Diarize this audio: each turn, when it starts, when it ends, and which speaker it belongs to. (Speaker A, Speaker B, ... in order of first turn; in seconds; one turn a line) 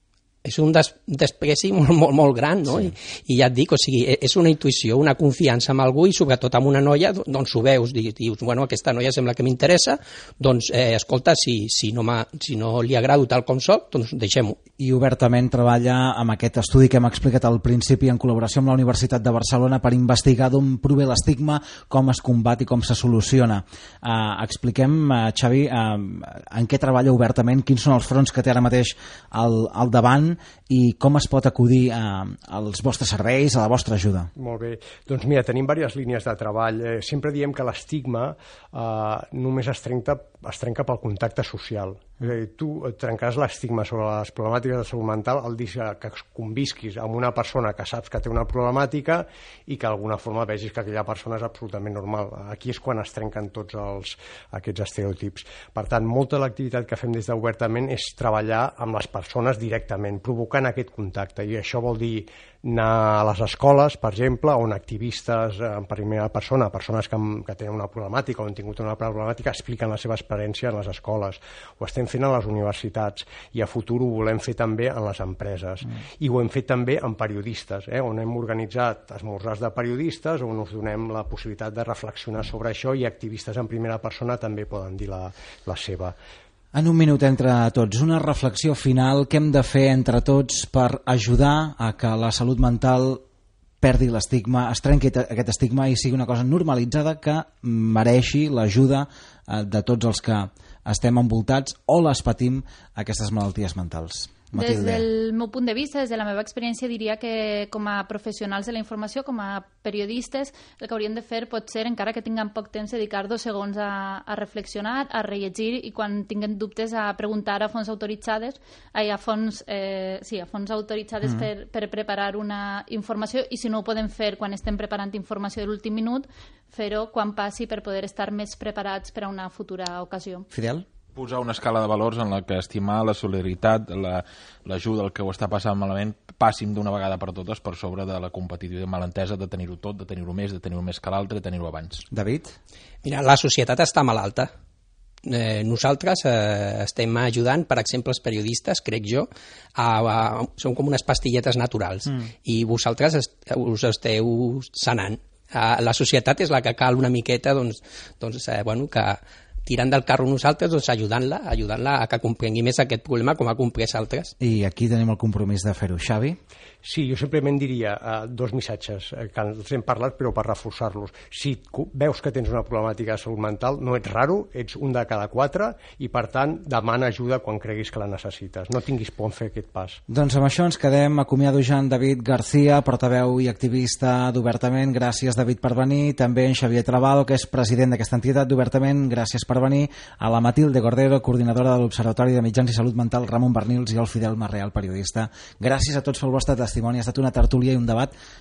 Speaker A: 0.4-14.6
Speaker B: 14.8-34.3
Speaker C: 34.4-86.2
Speaker B: 86.7-93.2
Speaker B: 93.8-105.1
Speaker D: 104.5-130.5
Speaker B: 130.5-130.9
Speaker E: 131.2-142.1
Speaker B: 142.1-142.6
Speaker A: 143.0-144.5
Speaker A: 145.2-164.3
Speaker B: 164.4-166.4
Speaker C: 166.8-180.0
Speaker B: 180.1-198.1